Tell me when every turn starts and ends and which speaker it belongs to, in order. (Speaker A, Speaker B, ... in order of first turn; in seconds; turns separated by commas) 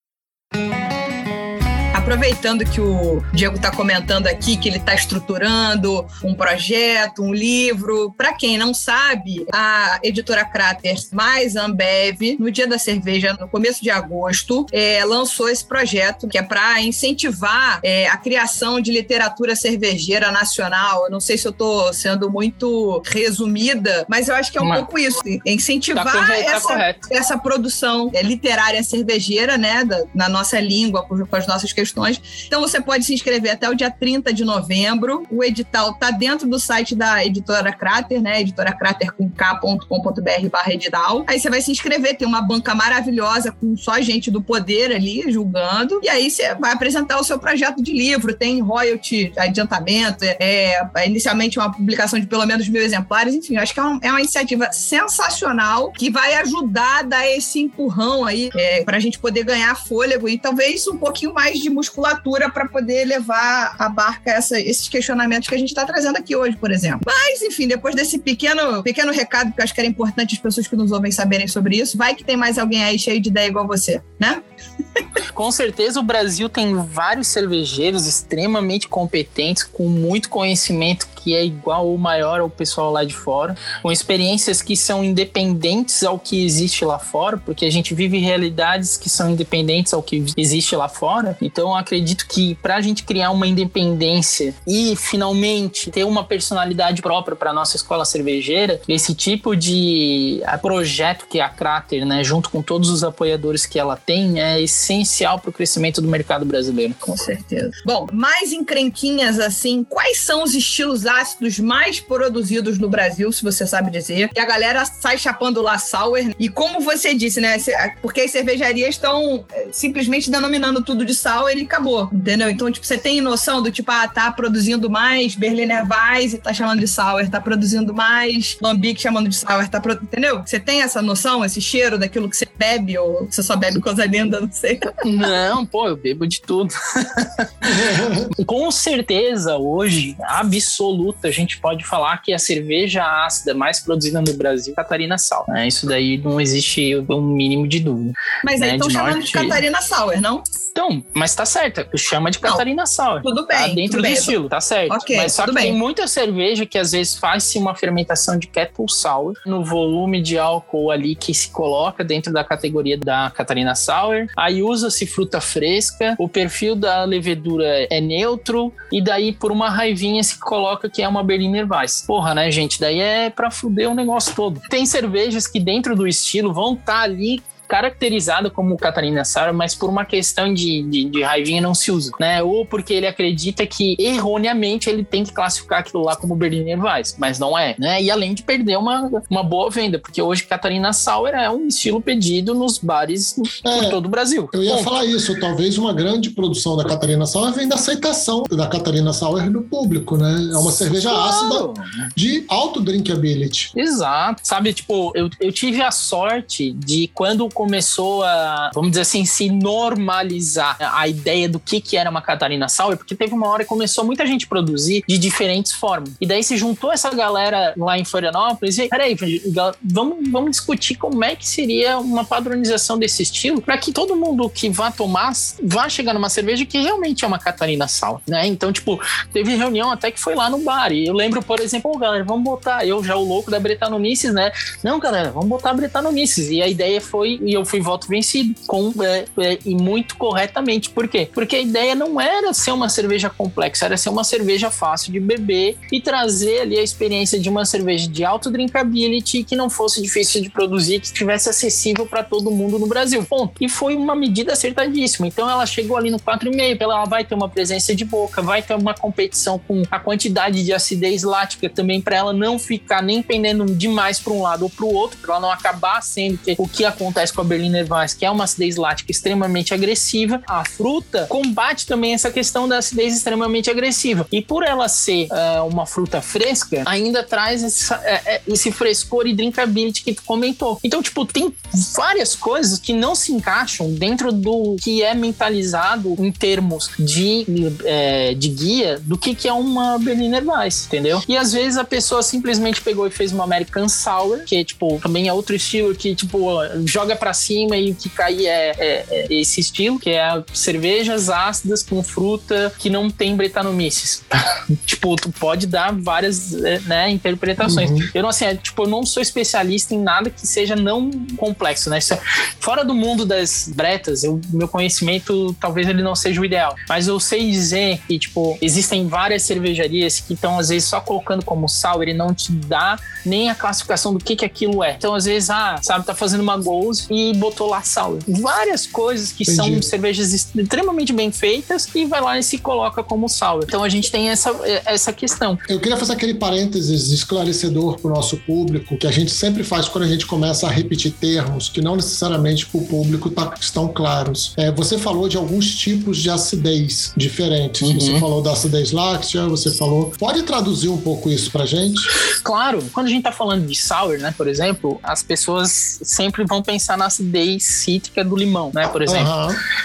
Speaker A: 1.9-74.4, Speaker B: 24.6-24.8, Speaker B: 25.9-27.0, Speaker B: 75.3-107.0, Speaker A: 107.0-135.0, Speaker B: 135.0-137.8, Speaker C: 137.6-138.3, Speaker B: 138.4-149.6, Speaker A: 148.4-150.4, Speaker B: 150.7-194.9, Speaker A: 153.2-154.4, Speaker A: 154.9-155.8, Speaker C: 193.6-194.0, Speaker C: 194.5-203.7, Speaker B: 201.1-202.1, Speaker B: 203.7-335.6, Speaker C: 307.6-308.1, Speaker C: 329.4-329.9, Speaker C: 335.7-352.1, Speaker B: 347.8-348.2, Speaker B: 352.4-359.3, Speaker C: 359.1-359.6